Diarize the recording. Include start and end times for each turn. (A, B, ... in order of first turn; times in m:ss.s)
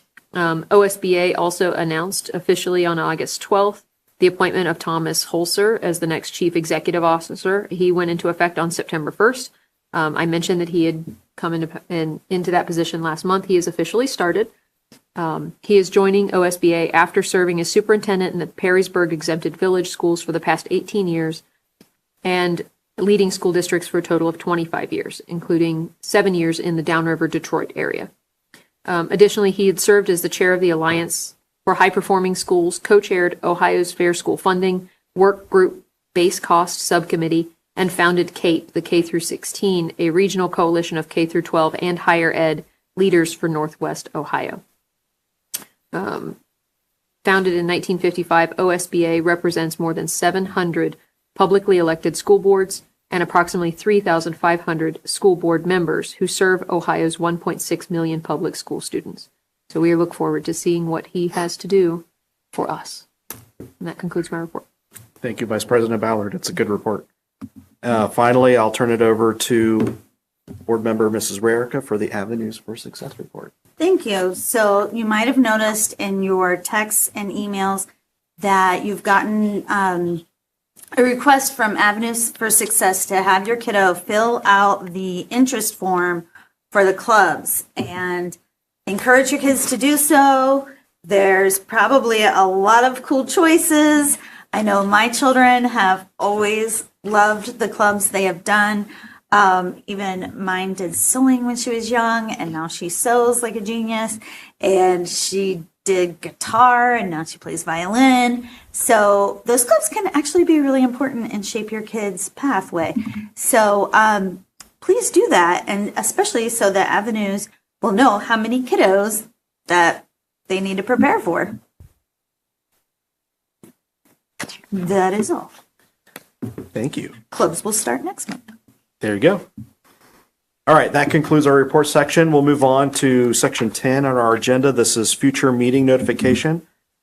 0:00.3-0:14.5 A
0:15.2-0:21.4 A
0:22.2-0:28.1 A
0:28.8-0:44.6 A
0:45.9-0:46.4 A
0:47.2-1:03.1 A
1:03.8-1:04.6 A
1:05.2-1:07.1 B
1:07.8-1:10.0 B
1:10.6-1:13.5 B
1:13.8-1:17.8 C
1:18.4-1:20.2 C
1:21.0-2:01.6 C
2:04.7-2:05.6 C
2:06.7-2:07.1 B
2:07.3-2:08.4 C
2:09.0-2:09.4 B
2:10.7-2:16.6 B